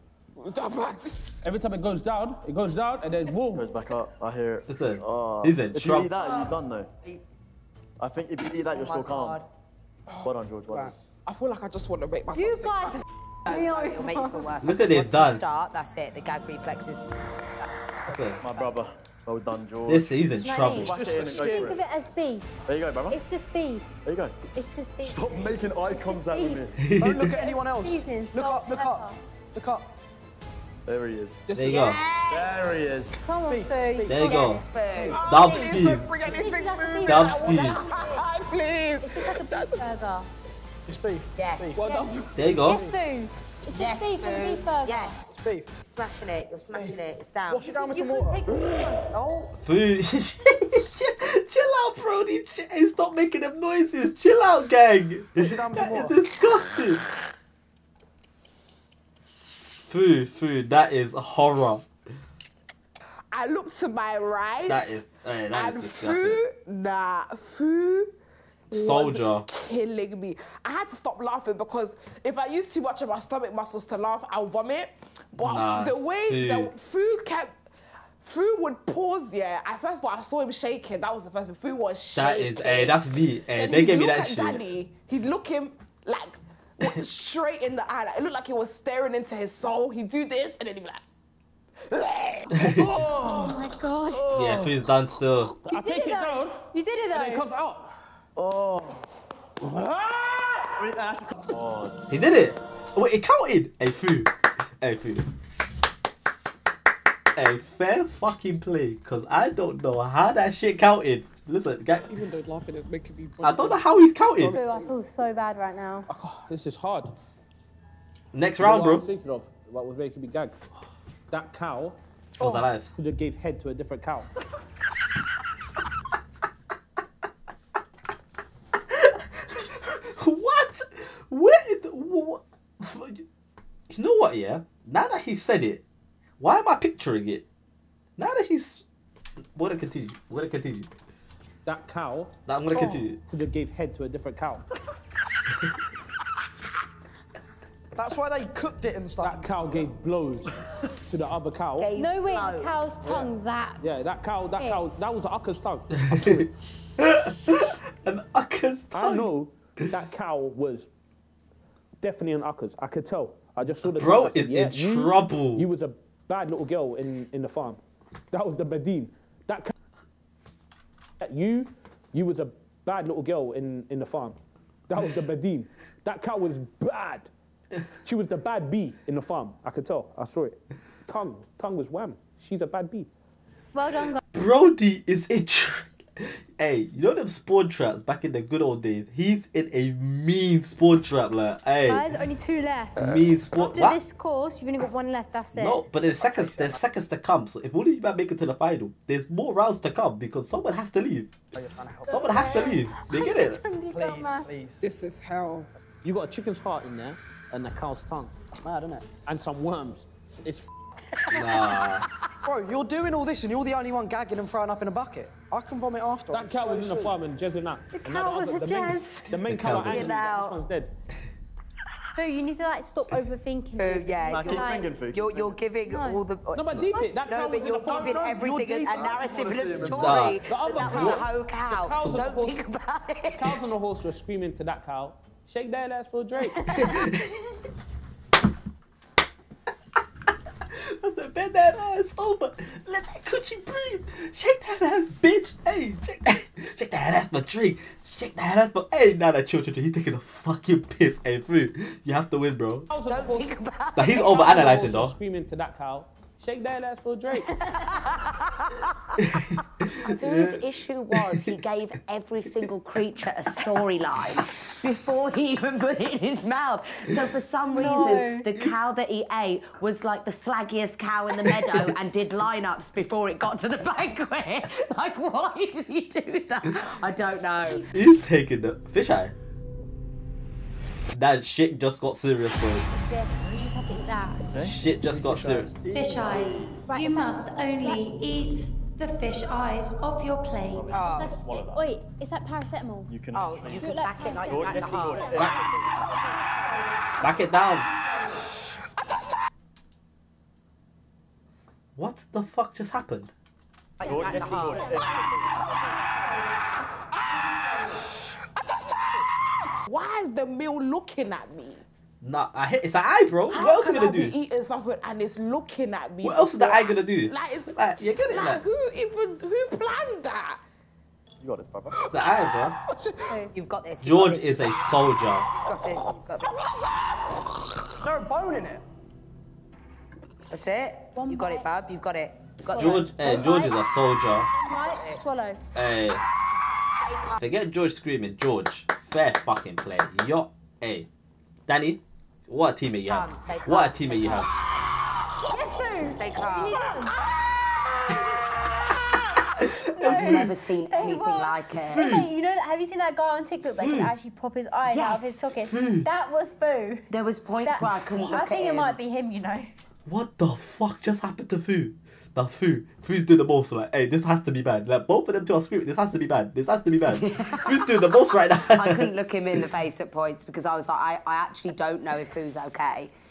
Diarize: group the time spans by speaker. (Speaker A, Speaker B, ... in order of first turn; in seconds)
Speaker A: 0.4-1.4, 11.2-13.0, 31.7-31.9, 35.1-39.9, 41.8-42.5, 63.3-68.1, 68.7-77.6, 78.2-91.0, 91.9-93.0, 204.8-205.7, 299.0-299.3, 307.1-309.3, 309.8-311.8, 313.5-317.7, 318.3-320.6, 321.9-323.4, 326.4-327.4, 346.7-349.0
Speaker B: 1.4-3.7, 95.7-97.9, 99.6-100.7, 116.1-117.1, 118.6-120.5, 121.3-122.0, 122.9-124.3, 141.7-142.3, 143.2-144.6, 149.2-151.9, 153.8-156.5, 158.9-160.9, 162.0-167.8, 168.3-169.7, 171.2-177.3, 178.0-183.1, 206.0-208.3, 209.2-210.7, 216.3-220.9, 226.5-228.2, 230.4-232.6, 233.2-236.8, 252.9-253.5, 254.2-257.6, 294.7-295.2, 304.3-304.8
Speaker C: 3.5-6.9, 8.0-9.4, 10.2-10.9, 18.4-21.8, 22.7-23.2, 24.0-24.4, 25.0-26.9, 30.9-31.4, 32.3-33.2, 92.8-94.6, 98.3-99.0, 100.6-102.0, 203.2-203.5, 224.2-225.6, 284.5-284.8, 285.8-286.8, 290.7-291.9, 293.1-295.7, 304.0-305.3, 321.4-322.0
Speaker D: 4.7-6.1, 14.6-15.4, 18.1-18.4, 19.9-21.0, 26.8-27.4, 31.5-32.0, 34.1-34.6, 35.2-36.1, 37.0-37.9, 42.4-42.8, 49.6-57.0, 59.9-61.8, 64.7-66.4, 68.7-69.5, 75.4-76.7, 82.1-84.6, 92.5-92.9, 94.3-95.5, 102.1-105.3, 107.3-112.1, 113.4-114.5, 118.3-119.1, 122.4-122.9, 128.7-133.2, 133.9-135.8, 136.4-137.4, 138.2-138.8, 139.5-140.9, 142.5-143.2, 155.9-159.3, 163.8-165.7, 184.3-192.1, 192.9-194.0, 195.5-201.3, 202.1-203.6, 211.3-212.1, 219.4-220.1, 229.8-231.3, 236.7-237.6, 240.7-252.9, 253.9-255.1, 259.2-260.6, 261.1-261.6, 267.9-268.7, 277.9-279.3, 281.1-282.9, 284.6-285.7, 297.2-297.9, 301.9-303.3, 312.2-314.3, 316.2-318.6, 322.1-322.7, 324.0-325.5, 332.7-334.5, 335.7-336.2, 337.4-341.1, 341.7-344.5, 350.0-350.5, 351.9-352.3, 353.7-354.1, 355.7-356.1, 360.1-369.6
Speaker E: 6.2-7.2, 8.7-9.5, 13.4-18.8, 31.6-32.8, 34.2-35.2, 37.9-38.2, 41.3-41.8, 43.7-47.8, 49.1-49.5, 151.8-153.1, 202.3-202.8, 211.1-211.9, 219.7-220.6, 223.7-233.6, 236.7-237.0, 253.0-254.6, 257.6-277.9, 290.9-291.4, 293.3-295.4, 304.0-305.0, 323.5-326.6, 330.5-333.1, 334.7-335.3, 337.0-337.4, 343.1-344.5, 346.1-346.9, 350.0-352.2, 354.8-355.4, 357.1-359.0, 367.1-373.1
Speaker F: 10.2-10.9, 21.0-21.7, 26.9-29.9, 31.5-31.8, 33.4-35.2, 40.9-41.9, 42.6-43.0, 45.3-45.8, 47.5-48.5, 55.3-56.3, 112.1-114.9, 147.9-149.5, 196.2-196.8, 201.5-202.5, 203.8-204.8, 208.6-209.1, 212.4-217.1, 227.8-230.3, 284.9-285.7, 328.0-328.8
Speaker G: 12.3-14.5, 20.3-22.5, 23.1-23.9, 24.5-26.6, 27.2-29.2, 33.2-38.2, 39.0-40.3, 41.8-45.2, 47.7-49.1, 92.9-94.5, 95.7-97.5, 114.5-116.1, 151.9-153.8, 183.7-184.2, 191.8-195.9, 202.2-204.6, 217.9-219.4, 222.2-224.9, 225.8-226.2, 267.7-268.5, 282.9-284.5, 286.9-288.1, 290.9-293.2, 293.8-296.4, 304.2-305.3, 305.8-306.3, 323.2-323.5, 331.1-331.7, 332.7-333.8, 334.5-335.6, 345.5-347.1, 349.6-357.1, 357.6-359.7
Speaker H: 285.9-291.0